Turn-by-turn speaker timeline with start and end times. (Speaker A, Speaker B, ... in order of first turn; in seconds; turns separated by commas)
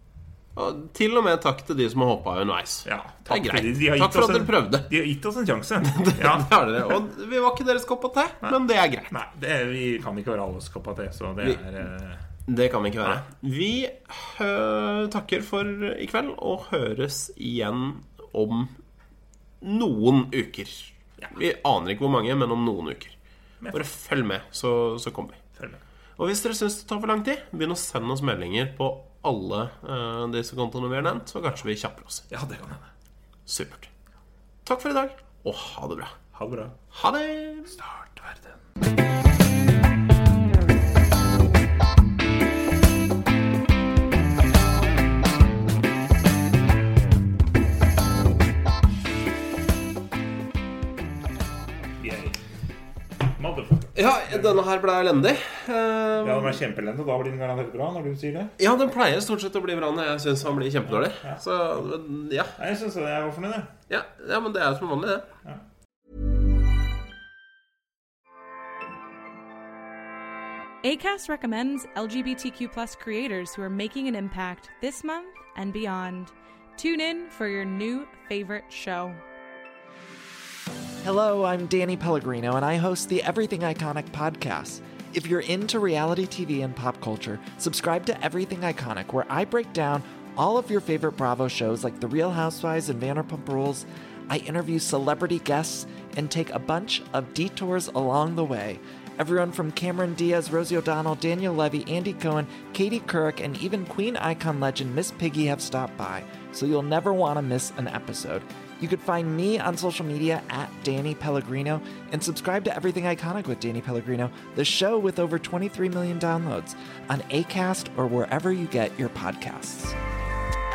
Speaker A: 0.6-4.9, Speaker B: 2.9-6.6, Speaker A: 5.8-9.1, Speaker B: 9.1-12.2, Speaker A: 12.5-18.7, Speaker A: 19.6-23.2, Speaker A: 23.7-25.4, Speaker B: 25.6-25.8, Speaker A: 26.2-32.3, Speaker B: 32.3-32.9, Speaker A: 33.5-33.9, Speaker A: 34.6-36.1, Speaker B: 36.3-36.8, Speaker A: 36.9-37.8, Speaker B: 37.7-38.6, Speaker B: 52.0-52.4, Speaker B: 53.3-54.6, Speaker A: 54.0-56.6, Speaker B: 56.2-58.5, Speaker A: 58.6-62.6, Speaker B: 60.9-61.4, Speaker B: 62.6-63.7, Speaker A: 63.9-65.3, Speaker C: 70.8-79.2, Speaker D: 81.0-120.0